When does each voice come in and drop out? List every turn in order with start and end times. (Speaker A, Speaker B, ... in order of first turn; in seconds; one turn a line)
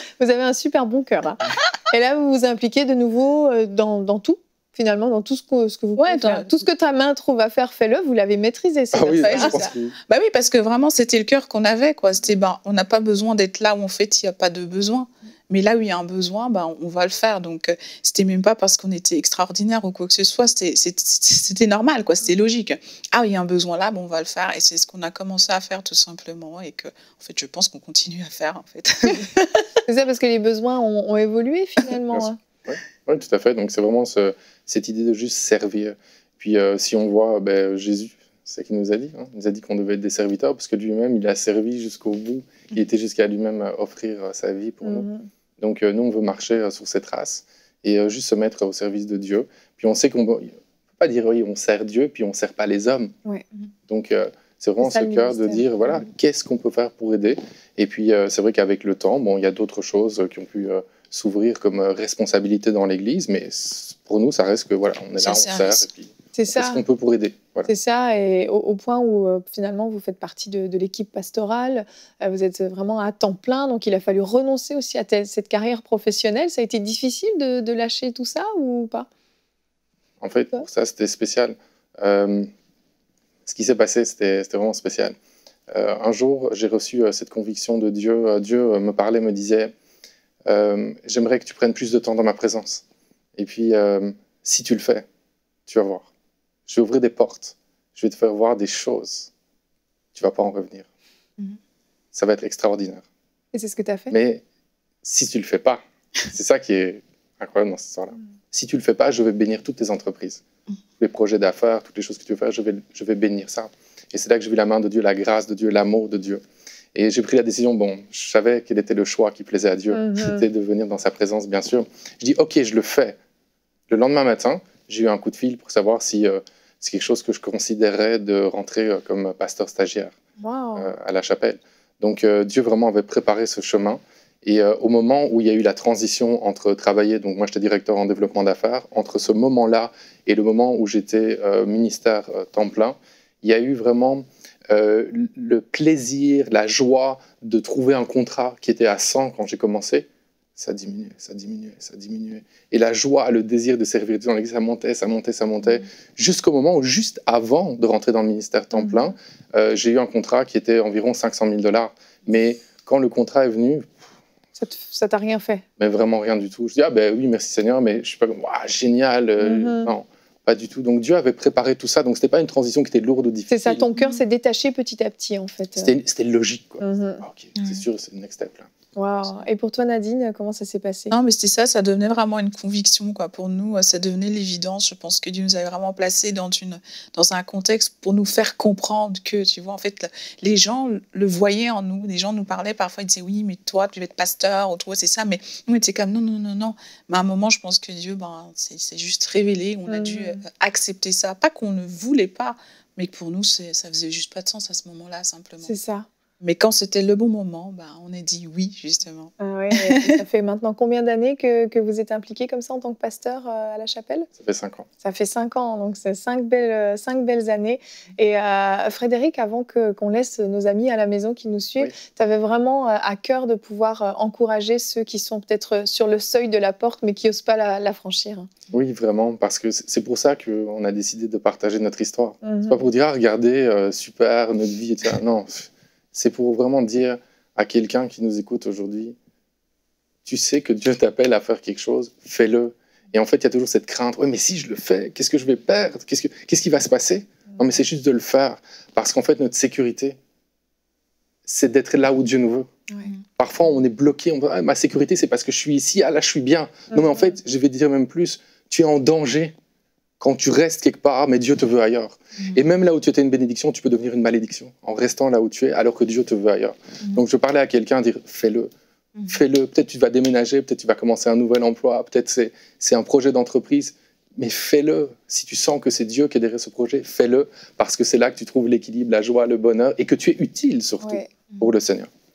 Speaker A: 0.2-9.6
Speaker B: 6.0-6.6
Speaker C: 8.9-9.9
Speaker B: 9.1-29.6
Speaker A: 29.9-32.4
Speaker C: 32.1-45.1
Speaker A: 44.8-45.3
Speaker C: 45.6-53.1
Speaker C: 53.9-67.7
Speaker A: 54.8-55.7
Speaker B: 65.2-65.8
Speaker A: 66.3-66.8
Speaker A: 67.6-79.1
Speaker C: 80.2-82.5
Speaker C: 83.5-85.1
Speaker C: 85.7-89.7
Speaker C: 90.5-92.8
Speaker C: 93.4-95.0
Speaker C: 95.7-96.1
Speaker C: 96.7-99.3
Speaker C: 100.1-100.9
Speaker C: 102.1-103.0
Speaker A: 103.5-104.1
Speaker C: 104.1-104.4
Speaker C: 105.0-110.4
Speaker C: 111.0-116.4
Speaker C: 116.9-123.2
Speaker A: 119.9-120.4
Speaker C: 123.9-130.1
Speaker A: 130.4-130.9
Speaker C: 130.8-150.1
Speaker C: 150.6-163.9
Speaker A: 158.7-159.1
Speaker A: 164.6-165.6
Speaker C: 165.8-173.8
Speaker A: 169.4-169.9
Speaker A: 173.5-175.9
Speaker B: 173.9-174.2
Speaker C: 175.8-178.7
Speaker A: 176.8-177.2
Speaker B: 177.6-177.8
Speaker A: 178.9-181.1
Speaker B: 181.1-205.7
Speaker A: 199.9-200.4
Speaker A: 205.6-206.1
Speaker B: 206.4-210.0
Speaker A: 209.4-214.3
Speaker C: 214.4-214.8
Speaker A: 215.0-228.5
Speaker C: 228.7-239.2
Speaker A: 232.4-232.8
Speaker C: 240.2-250.2
Speaker C: 251.5-252.7
Speaker C: 253.4-259.5
Speaker C: 260.2-268.7
Speaker B: 262.4-262.6
Speaker B: 269.1-269.4
Speaker C: 269.3-282.1
Speaker A: 281.0-281.3